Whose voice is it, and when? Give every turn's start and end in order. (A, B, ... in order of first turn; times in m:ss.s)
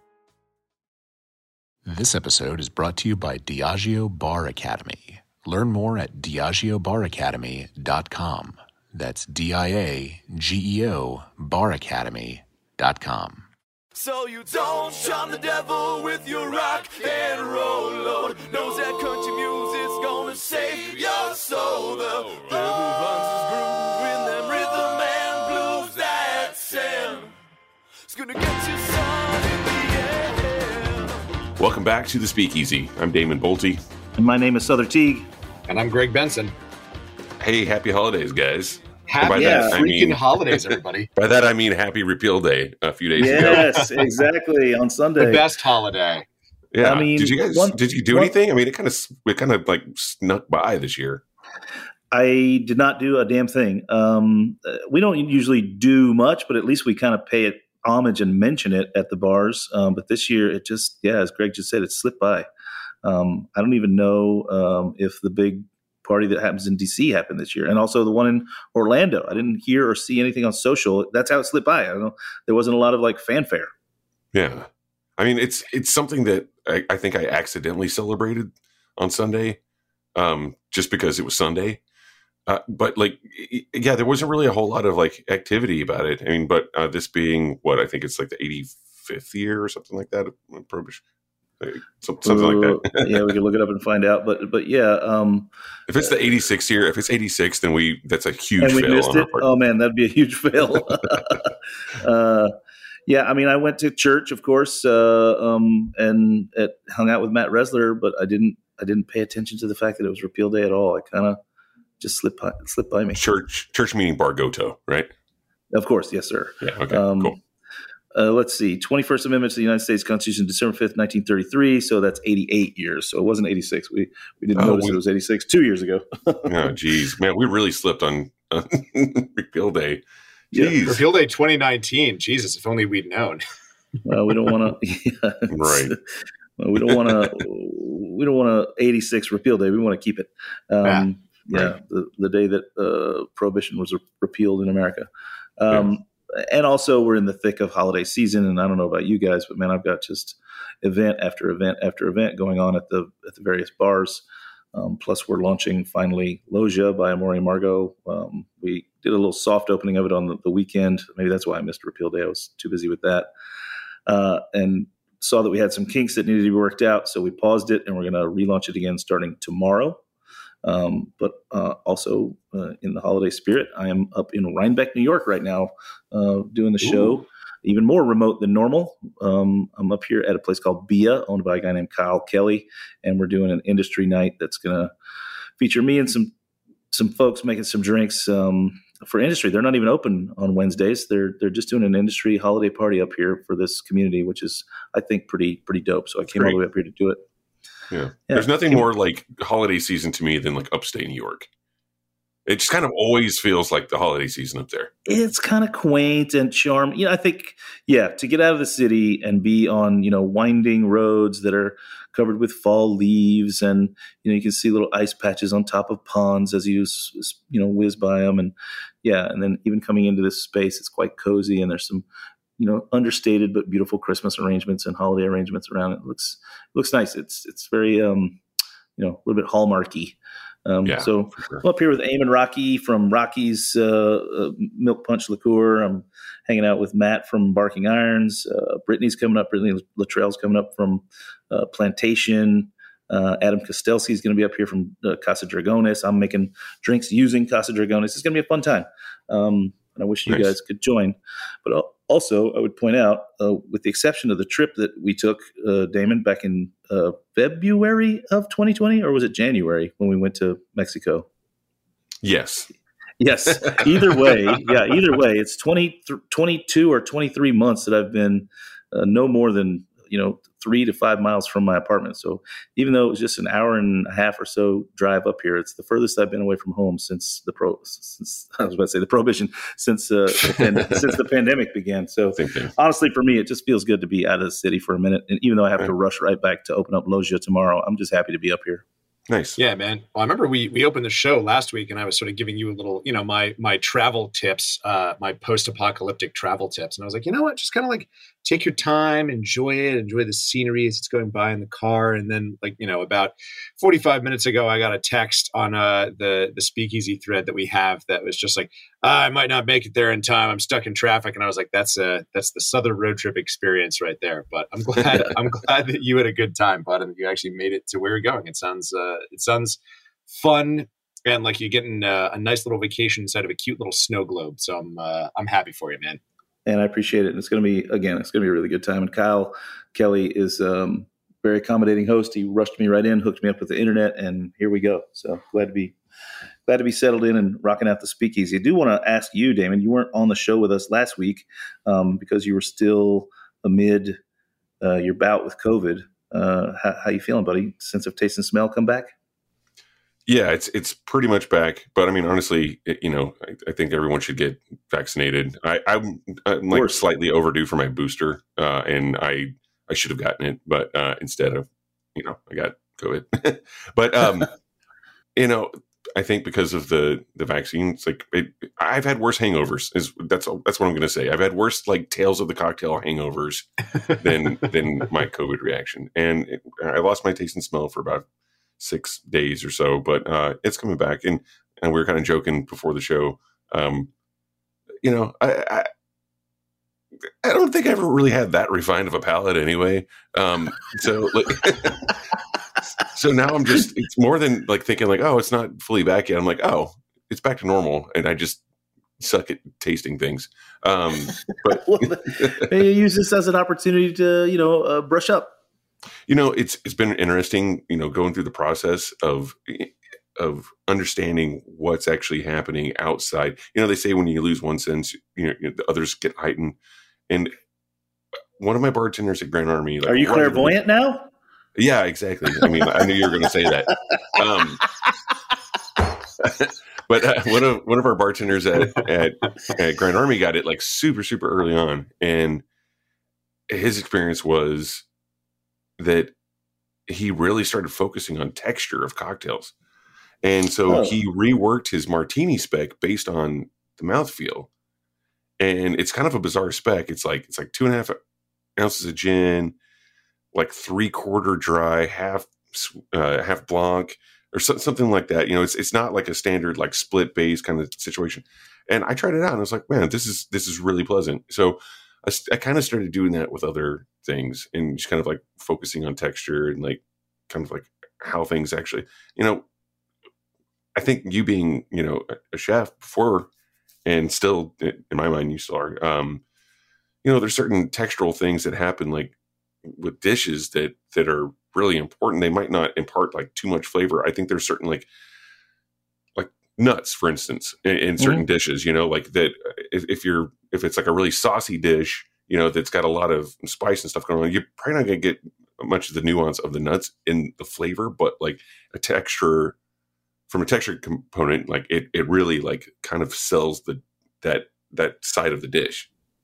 0:01.9-0:13.5 A
0:14.0-0:27.3 B
0:28.1-0:31.2 B
0:31.6-0:33.8 C
0:34.2-0:35.3 D
0:35.7-0:36.6 E
0:37.4-0:40.2 C
0:39.1-0:41.1 E
0:39.3-0:39.8 D
0:41.2-0:43.7 C
0:43.2-0:45.5 D
0:43.3-0:43.9 E
0:45.2-0:46.3 E
0:46.7-0:51.2 C
0:46.8-0:48.3 D
0:52.1-1:02.5 D
1:03.0-1:13.7 D
1:14.3-1:19.6 C
1:20.2-1:21.8 C
1:22.5-1:31.0 C
1:31.6-1:33.3 C
1:32.2-1:36.4 D
1:35.9-1:39.4 C
1:38.6-1:42.5 D
1:43.1-1:51.4 D
1:52.0-1:53.2 D
1:53.2-1:55.1 C
1:55.7-1:57.4 D
1:56.6-1:57.4 C
1:58.1-2:06.7 D
2:04.6-2:05.0 C
2:06.4-2:10.0 C
2:10.5-2:10.8 D
2:10.5-2:11.0 C
2:10.9-2:13.4 E
2:14.0-2:16.0 D
2:15.5-2:15.9 C
2:16.6-2:43.3 D
2:16.9-2:17.3 C
2:44.1-2:50.0 D
2:50.6-3:04.9 D
2:56.9-2:57.1 E
3:05.6-3:06.3 D
3:06.9-3:17.2 D
3:17.9-3:21.5 C
3:18.3-3:18.8 D
3:22.5-3:24.9 C
3:25.1-3:42.1 D
3:42.6-3:48.4 D
3:49.0-4:21.3 D
3:50.8-3:51.6 C
4:10.3-4:10.5 C
4:22.2-4:22.7 C
4:23.2-4:48.8 D
4:23.5-4:24.7 C
4:42.4-4:42.7 C
4:49.3-4:49.6 C
4:49.6-5:19.8 E
5:20.3-5:26.2 E
5:26.7-5:36.0 D
5:36.7-5:44.2 D
5:44.8-5:49.1 D
5:50.3-6:04.5 C
5:56.7-5:57.0 D
6:05.4-6:18.2 C
6:18.8-6:24.1 C
6:25.0-6:25.9 C
6:27.4-6:32.1 C
6:33.1-6:38.6 C
6:39.2-6:42.7 C
6:41.9-6:45.6 D
6:46.3-6:56.8 C
6:58.6-7:00.8 C
7:00.0-7:01.3 D
7:01.8-7:04.9 C
7:02.6-7:03.1 D
7:06.4-7:12.6 C
7:13.7-7:15.0 C
7:16.0-7:16.3 C
7:17.1-7:19.7 C
7:20.4-7:24.7 C
7:20.9-7:21.2 D
7:25.6-7:28.2 C
7:28.8-7:29.8 C
7:30.5-7:49.6 C
7:51.0-7:53.5 C
7:54.0-7:56.4 C
7:57.2-7:59.3 C
7:59.9-8:05.1 C
8:06.4-8:19.8 C
8:08.2-8:08.4 D
8:20.5-8:26.1 C